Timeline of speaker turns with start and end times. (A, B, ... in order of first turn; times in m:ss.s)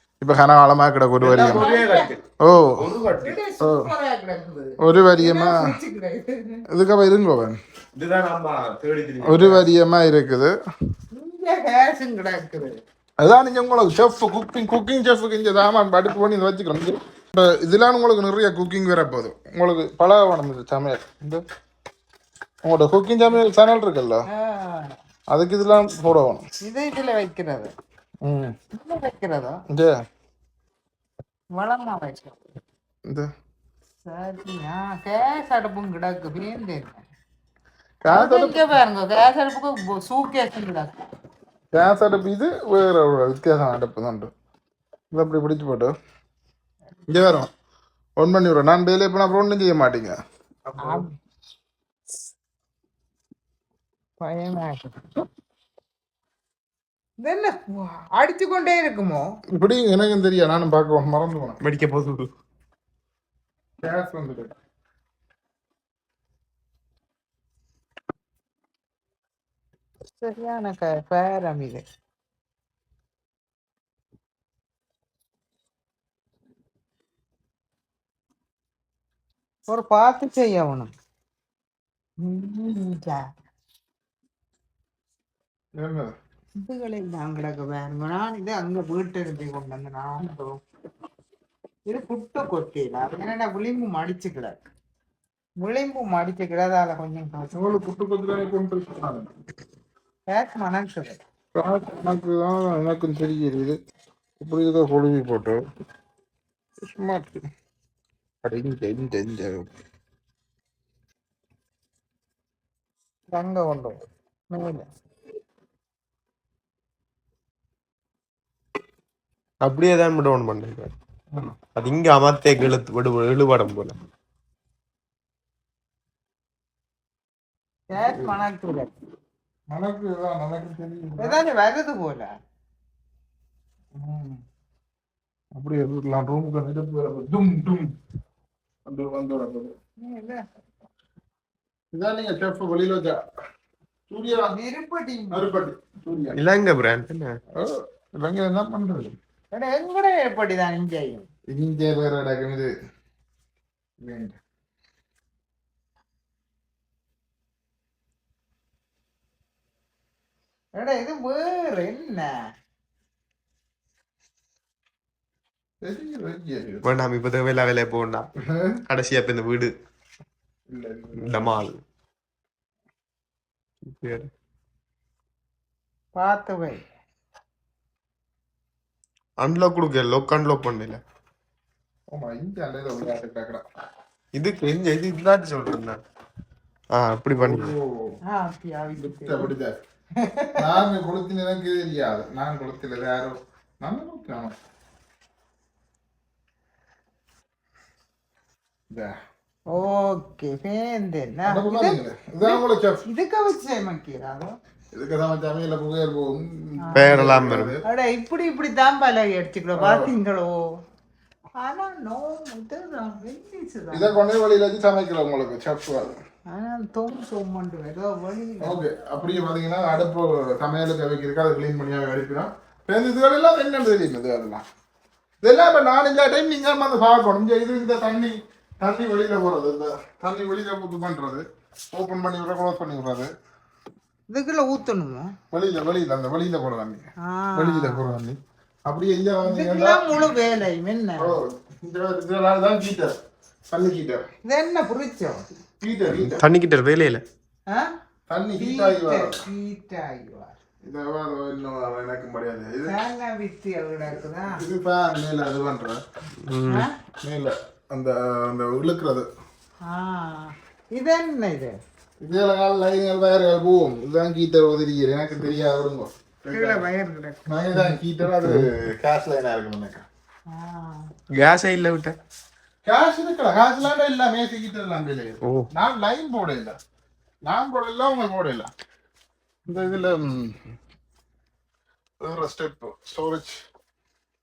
0:00.2-0:01.6 A
0:01.2-0:02.2 B
0:01.4-0:02.1 C
0:02.4-0:02.8 A
0:02.8-0:03.4 B
0:03.2-0:06.6 C
0:03.6-0:03.9 A
0:04.8-0:05.7 A
0:06.7-0:07.6 A
0:08.0-0:09.7 B
0:09.2-0:10.5 A
0:11.1-0:12.8 C
0:13.2-0:21.4 A
0:22.6-0:24.3 A
0:24.3-0:25.0 C
0:25.3-0:26.4 A
0:26.6-0:27.7 C
0:28.2-0:28.6 A
0:28.7-0:29.6 C
0:29.7-0:30.0 A
0:31.6-0:32.4 C
0:34.1-0:37.0 C
0:38.0-0:38.6 A
0:38.1-0:41.0 C
0:41.7-0:44.3 A
0:45.1-0:45.9 A
0:47.1-0:47.5 A
0:48.2-0:50.2 A
0:50.7-0:51.0 B
0:50.8-0:51.1 C
0:54.2-0:55.2 C
0:57.2-0:59.4 C
0:59.5-1:01.6 A
1:01.6-1:02.3 B
1:03.8-1:04.5 A
1:10.2-1:11.8 C
1:19.7-1:20.9 C
1:22.2-1:23.3 C
1:25.8-1:26.1 A
1:26.6-1:30.6 C
1:31.9-1:34.6 C
1:35.6-1:37.6 C
1:37.5-1:39.3 A
1:40.3-1:41.2 C
1:41.6-1:43.8 A
1:44.4-1:45.6 A
1:46.8-1:47.4 A
1:48.4-1:49.7 A
1:53.3-1:54.0 C
1:54.5-1:54.9 C
1:59.6-2:00.9 B
2:01.8-2:04.0 B
2:07.9-2:08.9 C
2:09.7-2:11.4 A
2:11.2-2:12.3 C
2:14.0-2:14.4 A
2:15.6-2:17.9 A
2:18.9-2:19.8 A
2:20.0-2:20.4 C
2:21.9-2:23.2 A
2:24.1-2:24.6 A
2:24.5-2:25.5 C
2:25.3-2:26.4 A
2:26.4-2:27.4 B
2:27.6-2:29.2 A
2:29.5-2:31.3 C
2:31.5-2:32.7 A
2:34.0-2:34.4 A
2:40.8-2:42.5 C
2:45.8-2:46.8 A
2:46.8-2:48.3 B
2:48.4-2:48.8 A
2:48.9-2:49.7 B
2:50.7-2:51.6 A
2:51.2-2:51.8 B
2:53.8-2:54.3 B
2:56.2-2:56.8 C
2:59.4-3:01.0 B
3:02.1-3:03.6 A
3:04.4-3:06.0 B
3:06.9-3:07.7 B
3:07.4-3:08.2 A
3:08.2-3:09.5 C
3:09.0-3:09.8 A
3:10.2-3:10.7 C
3:10.6-3:14.6 A
3:18.9-3:19.2 A
3:19.7-3:24.6 C
3:21.5-3:23.1 A
3:24.9-3:27.8 A
3:26.9-3:27.2 C
3:26.9-3:27.8 B
3:27.8-3:30.8 C
3:29.8-3:30.1 A
3:31.6-3:34.1 C
3:33.9-3:36.2 A
3:36.5-3:38.8 C
3:38.6-3:44.6 A
3:45.4-3:53.3 A
3:54.3-3:55.4 C
3:55.5-4:00.3 A
3:57.2-3:58.0 C
3:59.4-4:01.4 C
4:01.2-4:03.2 A
4:03.7-4:04.3 A
4:04.4-4:05.4 C
4:05.8-4:06.4 A
4:06.2-4:07.2 B
4:07.7-4:07.9 C
4:08.3-4:09.4 A
4:08.6-4:10.5 C
4:10.8-4:13.0 A
4:12.9-4:14.6 C
4:14.5-4:16.0 A
4:16.4-4:16.9 B
4:16.7-4:16.9 C
4:17.2-4:19.3 A
4:19.8-4:21.8 C
4:22.2-4:26.8 A
4:26.5-4:27.8 C
4:27.5-4:30.0 A
4:30.5-4:31.1 C
4:31.3-4:32.2 B
4:32.9-4:36.8 A
4:35.4-4:35.7 B
4:37.5-4:38.7 A
4:39.7-4:40.6 A
4:42.2-4:43.6 A